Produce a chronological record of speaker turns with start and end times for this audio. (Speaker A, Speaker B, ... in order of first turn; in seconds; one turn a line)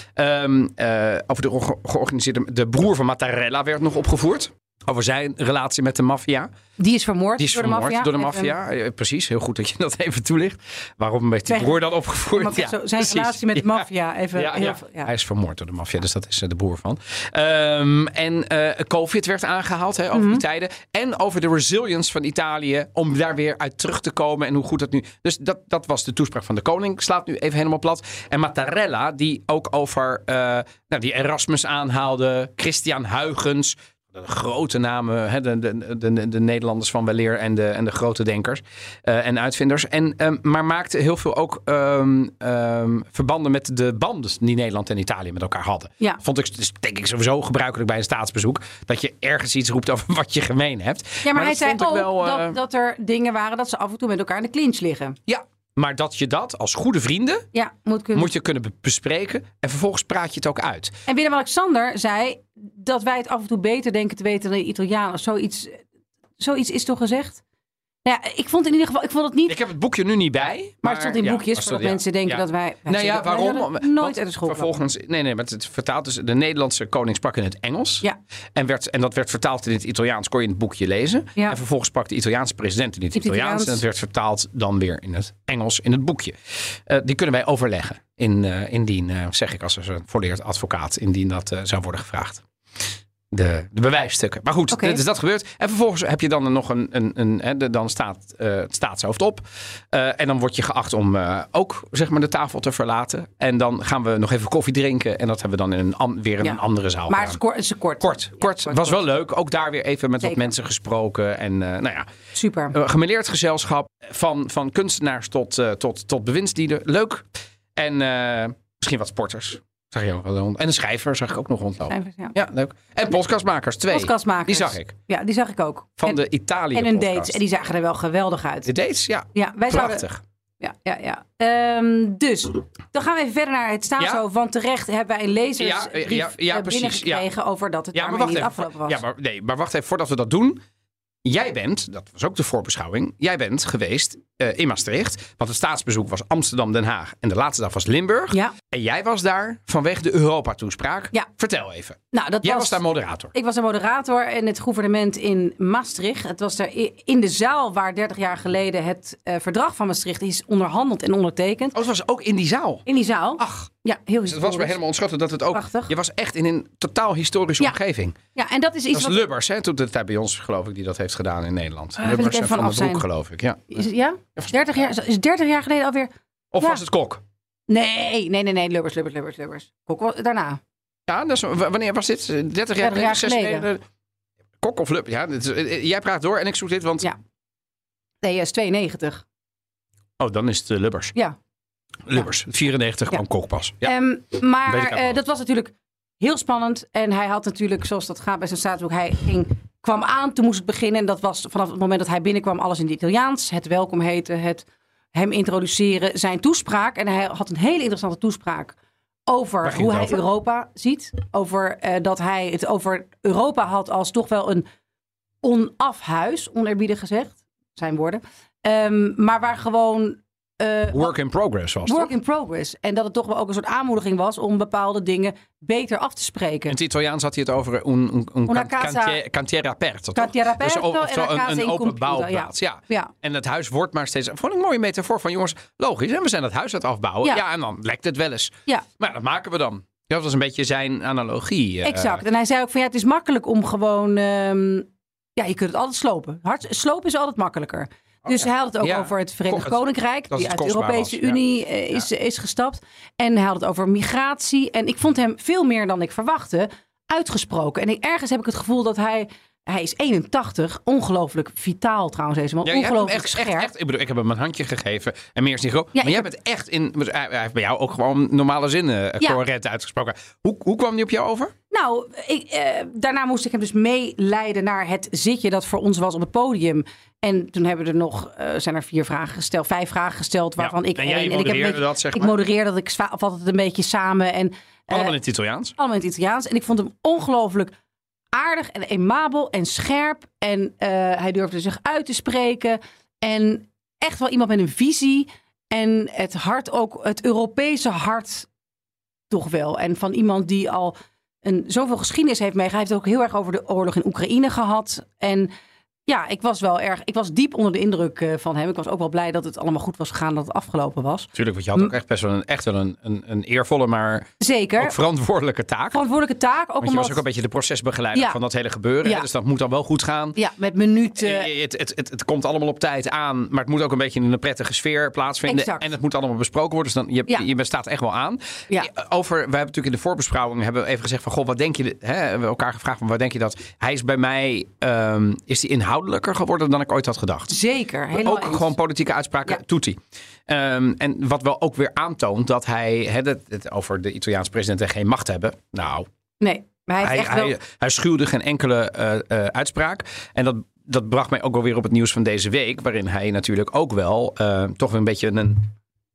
Speaker A: 0.1-6.5
Speaker B: 6.8-8.5
Speaker A: 7.4-52.6
Speaker B: 11.5-11.8
Speaker B: 12.3-15.1
Speaker B: 20.1-20.4
Speaker B: 51.2-55.2
Speaker A: 55.3-57.5
Speaker B: 57.5-58.3
Speaker A: 58.1-61.0
Speaker B: 61.0-65.8
Speaker B: 66.4-67.4
Speaker B: 68.0-69.6
Speaker A: 69.5-92.4
Speaker B: 70.8-74.7
Speaker B: 83.1-83.8
Speaker A: 93.3-107.4
Speaker B: 94.7-95.0
Speaker B: 106.4-109.0
Speaker A: 108.0-112.1
Speaker B: 112.3-112.8
Speaker A: 112.7-124.9
Speaker B: 121.9-122.3
Speaker B: 123.9-126.2
Speaker A: 126.0-127.4
Speaker B: 126.7-128.7
Speaker A: 128.7-130.2
Speaker B: 129.3-130.0
Speaker B: 130.6-139.0
Speaker A: 135.6-137.2
Speaker A: 137.9-140.6
Speaker A: 141.2-153.3
Speaker B: 152.1-152.8
Speaker B: 153.3-161.8
Speaker A: 161.7-162.8
Speaker B: 162.8-164.8
Speaker A: 163.4-163.7
Speaker A: 164.2-168.2
Speaker B: 165.5-165.9
Speaker B: 168.3-169.2
Speaker A: 168.9-173.8
Speaker B: 172.0-173.0
Speaker B: 173.7-176.8
Speaker A: 176.5-177.2
Speaker B: 177.7-180.6
Speaker A: 181.1-183.8
Speaker B: 182.8-183.7
Speaker A: 184.6-187.1
Speaker B: 188.2-189.2
Speaker A: 190.2-191.1
Speaker A: 192.1-193.9
Speaker B: 193.8-208.8
Speaker A: 194.7-195.2
Speaker B: 209.3-214.7
Speaker A: 209.6-210.2
Speaker B: 215.4-221.1
Speaker A: 220.9-222.1
Speaker B: 221.8-226.8
Speaker A: 226.7-242.2
Speaker B: 228.5-229.2
Speaker B: 230.1-233.1
Speaker B: 241.8-263.7
Speaker A: 248.2-249.8
Speaker A: 250.3-251.4
Speaker A: 262.6-271.5
Speaker B: 265.9-266.2
Speaker B: 271.7-285.1
Speaker A: 280.6-282.3
Speaker A: 284.9-285.7
Speaker B: 285.8-287.7
Speaker B: 288.3-298.5
Speaker B: 299.3-305.5
Speaker B: 306.1-311.9
Speaker A: 311.3-316.0
Speaker B: 314.4-314.9
Speaker B: 315.9-317.2
Speaker A: 316.8-320.4
Speaker B: 320.4-321.5
Speaker A: 321.2-337.5
Speaker B: 325.4-325.9
Speaker B: 337.5-338.7
Speaker A: 338.1-346.1
Speaker B: 346.4-347.5
Speaker A: 347.0-355.7